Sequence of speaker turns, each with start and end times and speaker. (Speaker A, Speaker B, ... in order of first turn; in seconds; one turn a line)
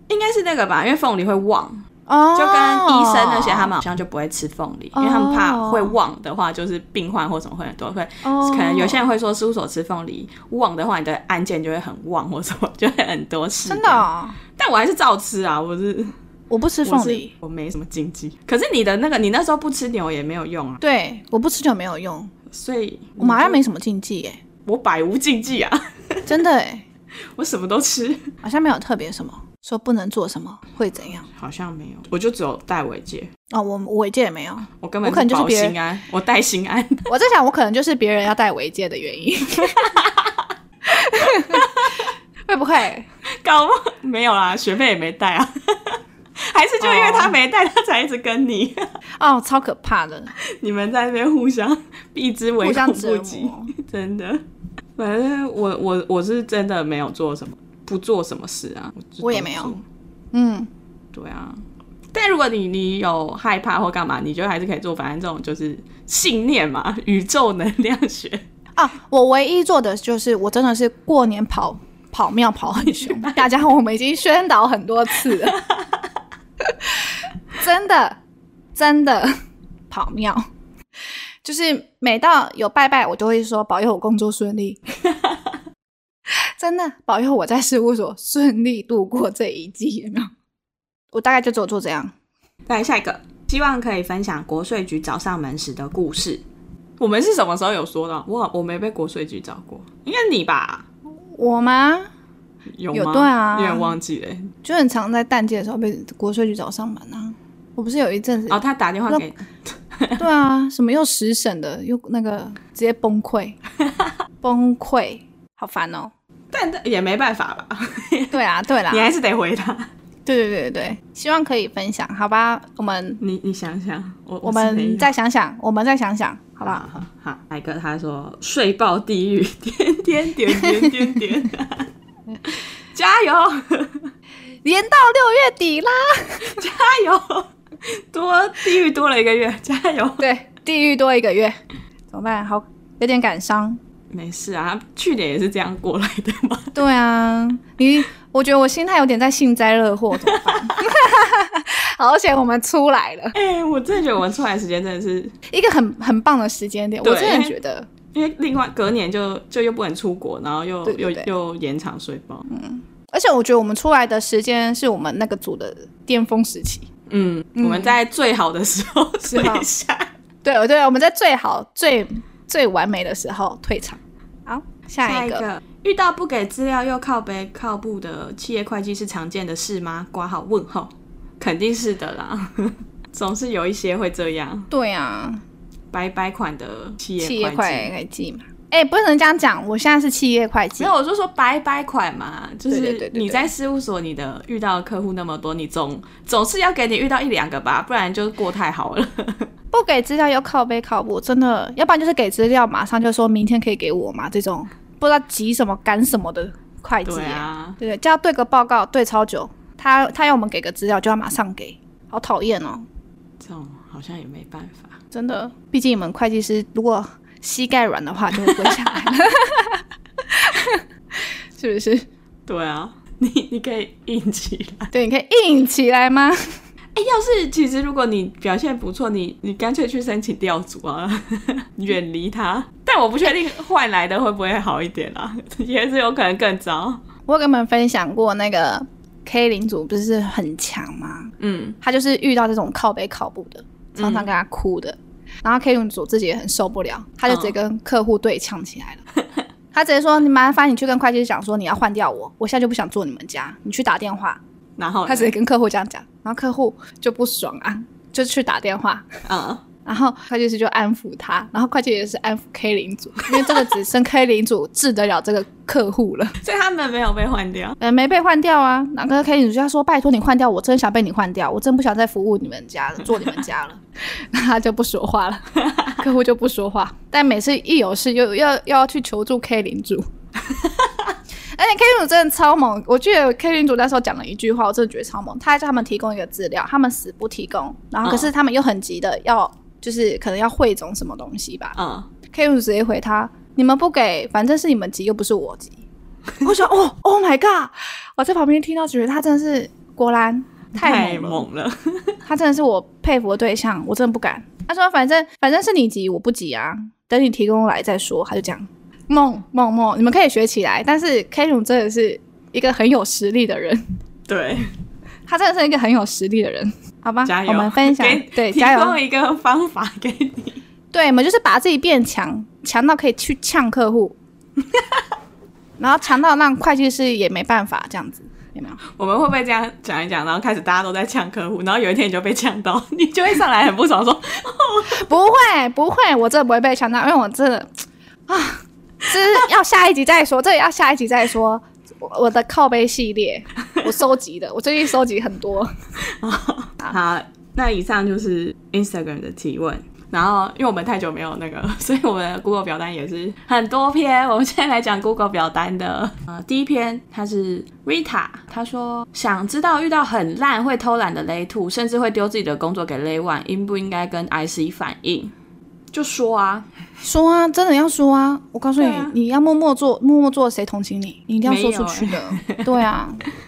Speaker A: 0.1-16.1
Speaker B: 2.1-3.7
Speaker B: 4.9-6.0
Speaker B: 8.2-9.0
Speaker B: 13.7-14.4
Speaker B: 16.5-17.3
Speaker A: 16.8-20.8
Speaker B: 20.8-22.3
Speaker A: 22.5-23.6
Speaker B: 23.2-24.4
Speaker A: 24.6-26.3
Speaker B: 26.3-26.8
Speaker A: 27.4-28.3
Speaker B: 28.4-31.3
Speaker A: 31.3-33.3
Speaker B: 33.5-35.8
Speaker A: 34.8-37.1
Speaker B: 37.1-40.0
Speaker A: 39.8-40.3
Speaker B: 40.9-41.8
Speaker A: 41.4-41.9
Speaker B: 42.5-43.1
Speaker A: 43.4-48.9
Speaker B: 46.8-47.3
Speaker B: 49.2-50.3
Speaker A: 50.4-54.4
Speaker B: 52.6-53.7
Speaker A: 55.0-59.8
Speaker B: 59.2-59.7
Speaker B: 60.3-60.7
Speaker A: 61.1-68.4
Speaker B: 68.8-75.6
Speaker A: 72.8-73.5
Speaker A: 75.3-75.8
Speaker B: 76.6-77.0
Speaker B: 77.5-78.2
Speaker B: 78.7-79.3
Speaker B: 79.9-80.5
Speaker B: 81.4-84.8
Speaker B: 86.6-90.3
Speaker B: 91.1-92.1
Speaker A: 92.7-96.4
Speaker A: 97.0-100.8
Speaker B: 101.3-102.1
Speaker A: 102.7-104.5
Speaker B: 102.9-103.9
Speaker B: 104.6-109.2
Speaker A: 108.5-110.2
Speaker B: 110.2-113.6
Speaker B: 114.4-116.1
Speaker A: 116.5-118.3
Speaker B: 118.3-119.1
Speaker A: 118.9-119.9
Speaker B: 120.2-123.2
Speaker A: 123.2-125.1
Speaker B: 124.4-126.9
Speaker A: 126.6-131.9
Speaker A: 132.5-134.1
Speaker B: 134.6-136.6
Speaker A: 136.4-140.2
Speaker B: 140.2-141.6
Speaker B: 142.1-143.8
Speaker A: 144.1-146.8
Speaker B: 146.7-153.3
Speaker A: 150.2-150.7
Speaker A: 153.3-155.3
Speaker B: 155.5-157.9
Speaker A: 157.0-157.5
Speaker A: 158.1-162.5
Speaker B: 160.8-161.3
Speaker B: 162.5-166.9
Speaker A: 167.1-170.1
Speaker B: 167.6-167.9
Speaker B: 169.2-169.7
Speaker B: 170.4-175.4
Speaker A: 175.0-184.7
Speaker B: 184.7-185.4
Speaker A: 185.9-187.9
Speaker B: 187.2-190.9
Speaker A: 190.8-199.5
Speaker B: 192.7-193.5
Speaker B: 199.7-212.8
Speaker A: 207.0-207.8
Speaker A: 213.4-215.0
Speaker B: 215.1-220.8
Speaker A: 218.5-218.8
Speaker B: 221.6-222.1
Speaker A: 222.4-224.9
Speaker B: 224.9-226.6
Speaker A: 226.9-237.0
Speaker B: 237.3-249.0
Speaker A: 241.4-241.8
Speaker A: 243.9-244.3
Speaker A: 247.3-247.5
Speaker B: 249.7-254.4
Speaker A: 254.8-255.3
Speaker B: 255.1-259.1
Speaker A: 259.2-259.6
Speaker B: 259.8-266.4
Speaker A: 263.4-263.7
Speaker A: 266.4-267.8
Speaker B: 267.8-280.1
Speaker B: 281.5-291.8
Speaker A: 288.0-288.3
Speaker A: 291.8-292.1
Speaker B: 292.3-295.8
Speaker B: 296.4-301.4
Speaker A: 300.8-302.2
Speaker B: 302.2-313.8
Speaker A: 314.3-314.7
Speaker B: 315.3-319.0
Speaker A: 317.2-320.6
Speaker B: 320.9-324.2
Speaker B: 325.8-328.8
Speaker A: 328.9-335.1
Speaker B: 334.9-337.7
Speaker B: 338.3-345.7
Speaker A: 346.0-365.3
Speaker A: 365.9-366.7
Speaker B: 367.0-373.2
Speaker A: 368.8-369.1
Speaker A: 371.4-372.7